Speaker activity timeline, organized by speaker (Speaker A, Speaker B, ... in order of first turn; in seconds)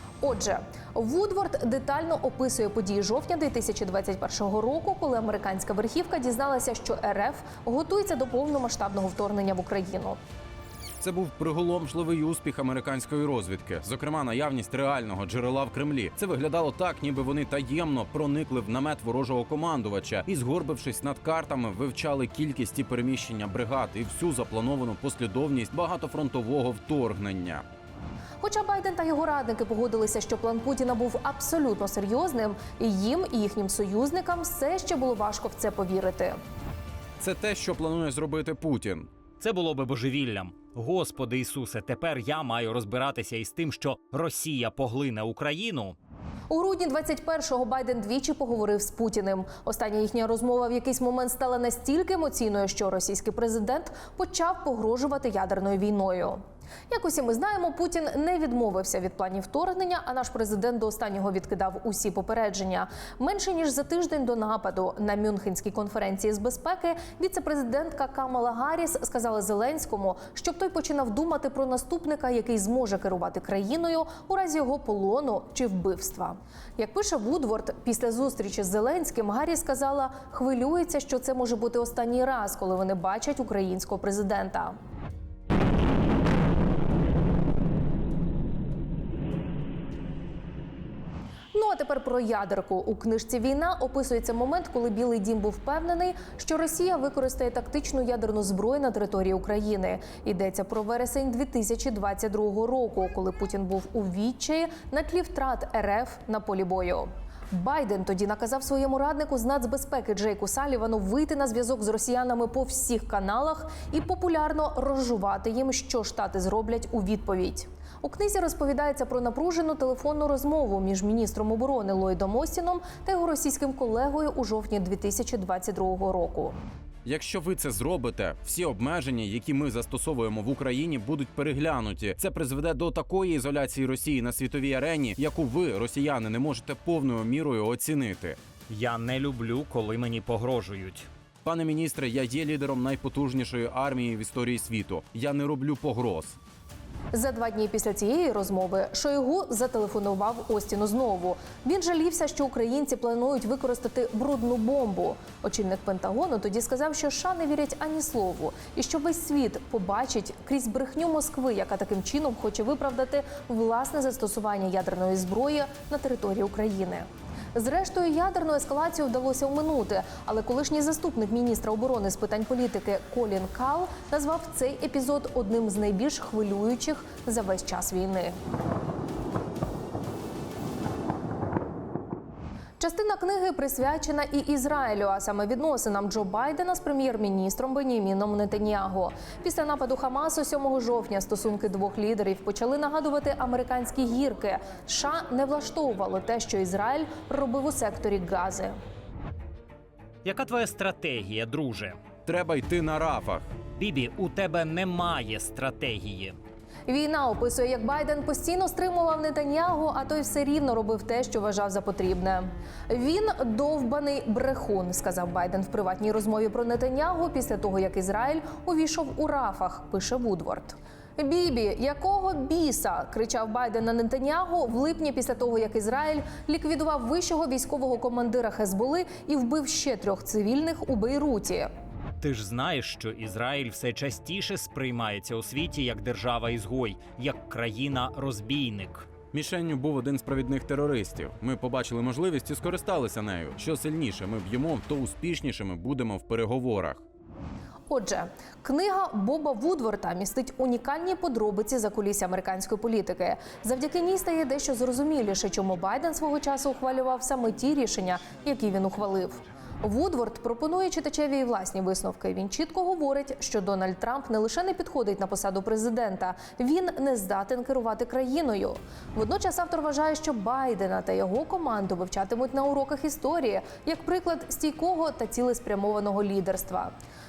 Speaker A: 0.2-10.2, 28.4-36.4, 46.5-84.8, 91.5-126.5, 147.1-178.3, 182.8-198.8, 206.9-231.7, 247.9-276.9
Speaker B: 11.0-27.6, 37.2-39.1, 127.0-138.4, 141.4-146.4, 202.2-203.5, 239.3-247.0
Speaker C: 39.4-46.0, 138.7-141.1, 200.2-202.0, 203.8-206.4, 232.2-239.1